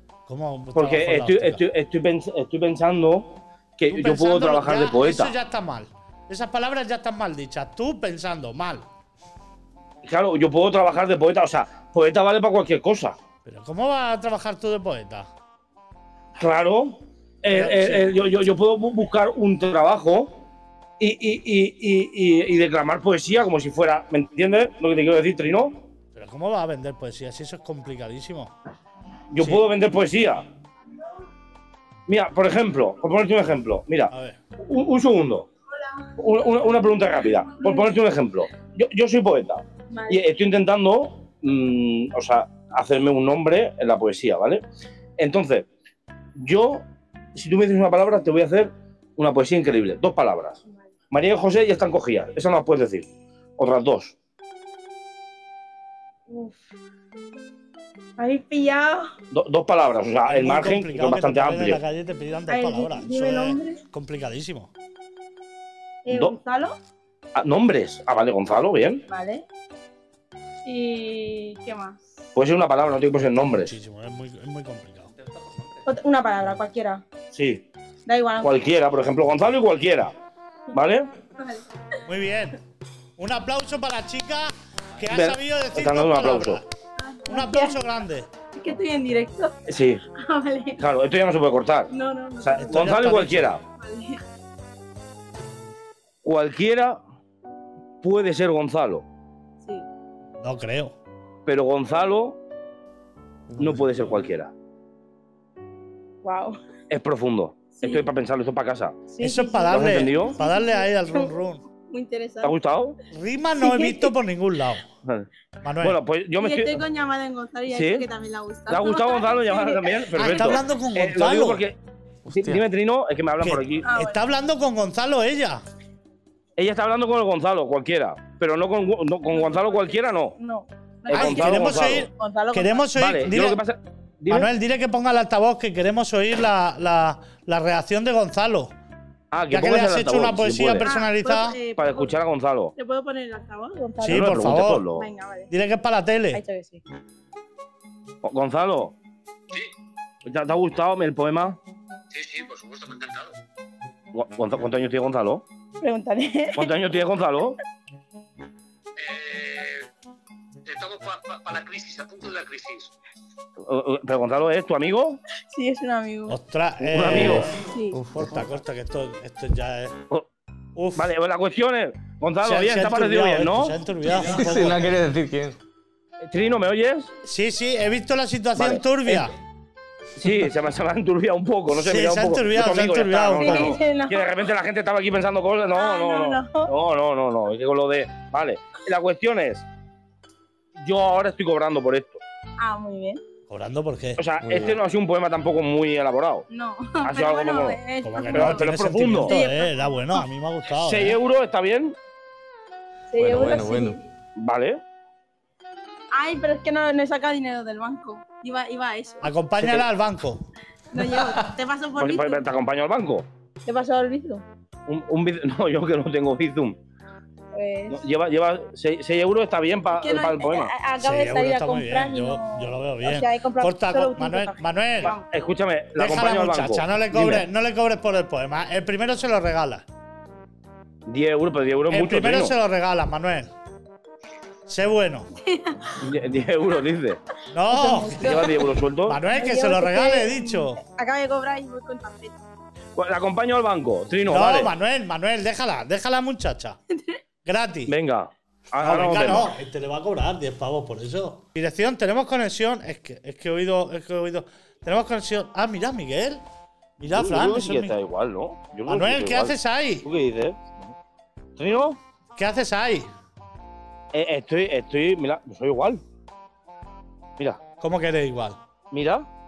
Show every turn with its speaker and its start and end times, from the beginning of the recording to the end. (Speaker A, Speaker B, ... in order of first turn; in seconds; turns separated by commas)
Speaker A: 0.3-1.6, Speaker B: 0.7-5.3, Speaker A: 3.9-8.8, Speaker B: 10.0-13.2, Speaker A: 13.4-15.3, Speaker B: 16.4-20.3, Speaker A: 17.5-18.1, Speaker B: 21.0-25.8, Speaker A: 26.1-28.5, Speaker B: 29.3-30.4, Speaker B: 32.1-35.5, Speaker A: 34.1-34.4, Speaker B: 36.2-44.6, Speaker C: 37.5-38.0, Speaker C: 39.9-40.3, Speaker B: 45.2-45.7, Speaker B: 46.4-50.6, Speaker B: 51.1-54.1, Speaker C: 56.3-56.6, Speaker C: 58.2-59.1, Speaker B: 59.3-61.8, Speaker A: 60.3-64.7, Speaker C: 62.5-63.8, Speaker C: 66.0-66.7, Speaker B: 66.1-66.4, Speaker B: 67.3-69.0, Speaker C: 69.1-69.4, Speaker C: 70.6-72.0, Speaker B: 72.3-73.7, Speaker A: 73.2-75.1, Speaker C: 75.8-77.0, Speaker B: 77.3-77.6, Speaker C: 78.0-78.6, Speaker B: 78.4-80.1, Speaker B: 80.7-81.1, Speaker C: 81.4-81.6, Speaker A: 82.0-82.6, Speaker A: 83.2-86.7, Speaker B: 85.0-86.6, Speaker C: 87.0-87.8, Speaker A: 87.3-88.3, Speaker C: 88.5-89.5, Speaker B: 89.7-90.0, Speaker C: 90.2-90.8, Speaker B: 90.8-93.6, Speaker C: 91.9-93.0, Speaker A: 92.6-93.5, Speaker C: 93.8-94.2, Speaker B: 96.2-97.0, Speaker B: 98.0-99.0, Speaker A: 100.4-100.9, Speaker B: 101.5-102.4, Speaker D: 103.6-104.0, Speaker B: 103.6-104.5, Speaker C: 106.2-106.5, Speaker B: 106.9-109.0, Speaker C: 107.7-108.1, Speaker C: 109.1-111.3, Speaker A: 109.2-111.6, Speaker B: 109.7-110.3, Speaker C: 111.9-112.5, Speaker B: 112.4-113.0, Speaker A: 113.1-114.8, Speaker C: 113.6-114.1, Speaker A: 115.6-116.0, Speaker B: 115.8-116.8, Speaker C: 116.4-120.6, Speaker B: 117.7-118.0, Speaker B: 118.7-123.8, Speaker A: 120.2-121.6, Speaker D: 122.3-122.6, Speaker A: 123.4-125.6, Speaker C: 123.8-124.2, Speaker B: 126.5-130.3, Speaker C: 129.3-132.9, Speaker B: 131.1-132.1, Speaker A: 131.1-133.6, Speaker B: 132.9-134.5, Speaker A: 134.3-138.7, Speaker B: 139.3-140.9, Speaker A: 139.5-141.6, Speaker C: 140.8-142.1, Speaker B: 141.8-142.7, Speaker C: 142.8-145.5, Speaker A: 144.0-144.8, Speaker B: 144.1-145.1, Speaker A: 145.5-146.4, Speaker C: 146.3-146.8, Speaker B: 148.2-148.9, Speaker B: 150.2-151.6, Speaker E: 152.1-153.3, Speaker B: 154.1-155.4, Speaker C: 155.8-156.7, Speaker B: 156.5-157.6, Speaker E: 159.0-159.9, Speaker E: 160.6-162.9, Speaker B: 163.6-165.2, Speaker C: 165.5-166.3, Speaker A: 166.3-169.9, Speaker B: 166.8-167.6, Speaker D: 167.1-168.3, Speaker C: 167.7-168.0, Speaker A: 170.8-171.1, Speaker B: 170.9-173.8, Speaker A: 172.4-174.9, Speaker D: 174.1-175.6, Speaker B: 176.2-177.1, Speaker A: 177.2-179.3, Speaker B: 178.6-179.3, Speaker B: 180.1-189.6, Speaker A: 181.7-183.7, Speaker C: 183.4-184.4, Speaker C: 185.7-186.7, Speaker B: 190.8-192.2, Speaker C: 192.6-193.2, Speaker A: 193.5-194.2, Speaker B: 194.2-196.4, Speaker D: 194.4-194.8, Speaker C: 196.5-198.6, Speaker B: 197.0-197.8, Speaker A: 198.0-201.2, Speaker B: 198.3-199.3, Speaker C: 199.2-200.2, Speaker B: 200.7-201.9, Speaker C: 203.1-204.0, Speaker D: 203.2-204.0, Speaker B: 204.4-204.8, Speaker C: 206.1-209.3, Speaker A: 209.2-210.4, Speaker B: 209.6-209.8, Speaker C: 210.9-212.4, Speaker B: 211.9-213.2, Speaker C: 213.6-214.4, Speaker B: 214.9-216.8, Speaker C: 217.5-218.0, Speaker B: 217.9-220.7, Speaker C: 219.9-225.2, Speaker A: 221.0-225.1, Speaker B: 225.0-227.5, Speaker A: 225.9-229.8, Speaker B: 231.1-232.5, Speaker A: 231.9-233.5, Speaker A: 234.7-235.2, Speaker C: 235.4-236.0, Speaker B: 236.0-237.2, Speaker A: 237.5-238.4, Speaker C: 237.7-242.4, Speaker B: 238.2-239.2, Speaker A: 239.1-240.8, Speaker B: 242.9-244.7, Speaker A: 244.3-246.8, Speaker A: 247.4-247.9, Speaker B: 247.9-249.5, Speaker A: 248.8-256.4, Speaker A: 257.0-257.9, Speaker B: 257.1-260.9, Speaker A: 258.9-260.1, Speaker B: 261.6-262.0, Speaker A: 262.4-263.1, Speaker B: 264.1-266.0, Speaker A: 267.8-268.6, Speaker B: 268.9-269.2